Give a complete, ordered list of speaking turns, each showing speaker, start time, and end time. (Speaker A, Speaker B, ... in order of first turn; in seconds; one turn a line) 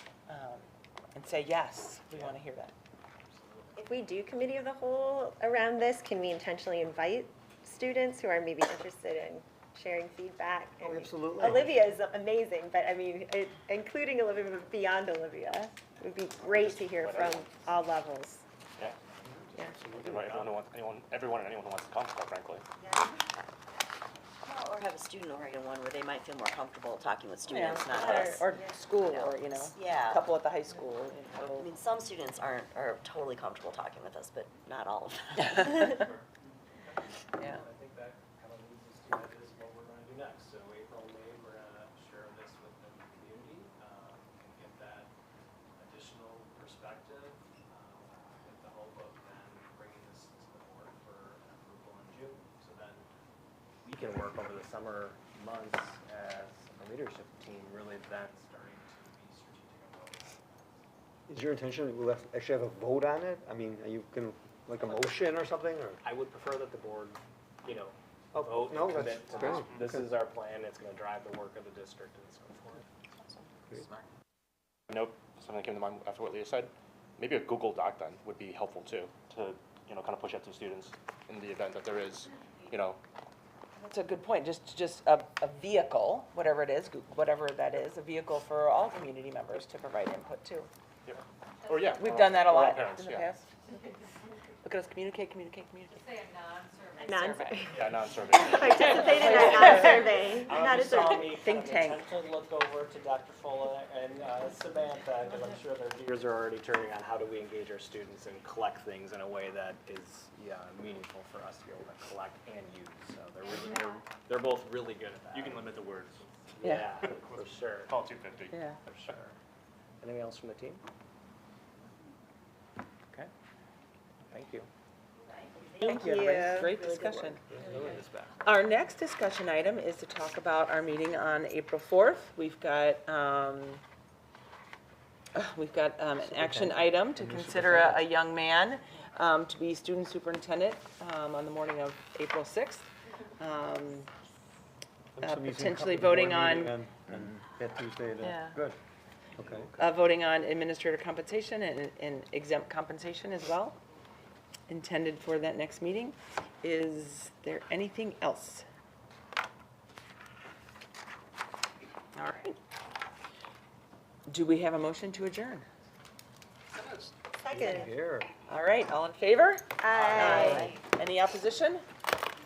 Speaker A: 0.3-2.7
Speaker B: 2.1-2.4
Speaker B: 3.3-3.8
Speaker C: 3.8-18.4
Speaker D: 10.8-11.7
Speaker E: 16.5-17.4
Speaker B: 18.8-20.6
Speaker E: 20.0-22.6
Speaker C: 22.8-23.1
Speaker F: 24.4-30.3
Speaker A: 27.5-31.7
Speaker C: 27.5-28.7
Speaker F: 31.4-35.9
Speaker A: 35.6-35.9
Speaker B: 35.8-36.3
Speaker B: 36.8-45.1
Speaker B: 45.8-53.1
Speaker B: 53.8-60.8
Speaker D: 61.3-66.0
Speaker B: 66.0-72.8
Speaker D: 68.3-70.0
Speaker E: 74.9-83.0
Speaker A: 83.8-90.7
Speaker E: 91.0-93.3
Speaker G: 91.7-92.1
Speaker A: 92.0-93.5
Speaker A: 94.6-96.1
Speaker G: 95.9-97.8
Speaker A: 97.0-97.6
Speaker C: 97.0-101.4
Speaker E: 97.7-99.7
Speaker G: 98.6-99.0
Speaker A: 98.8-100.0
Speaker B: 99.6-115.8
Speaker A: 101.2-102.1
Speaker E: 115.3-116.2
Speaker B: 116.5-118.1
Speaker A: 116.6-116.9
Speaker E: 117.0-118.6
Speaker A: 118.5-118.8
Speaker B: 118.8-119.3
Speaker B: 120.0-120.8
Speaker B: 124.3-124.7
Speaker C: 125.6-127.4
Speaker A: 125.8-127.4
Speaker B: 127.5-128.3
Speaker A: 128.4-133.8
Speaker A: 135.3-142.8
Speaker D: 136.3-138.1
Speaker A: 143.4-144.1
Speaker D: 145.2-148.8
Speaker A: 145.2-146.7
Speaker A: 148.2-148.6
Speaker D: 149.4-149.7
Speaker A: 149.8-153.8
Speaker A: 154.7-158.7
Speaker A: 162.1-162.6
Speaker A: 164.3-165.7
Speaker C: 167.3-167.9
Speaker D: 167.5-168.3
Speaker A: 168.5-171.8
Speaker C: 169.8-170.7
Speaker F: 170.2-170.7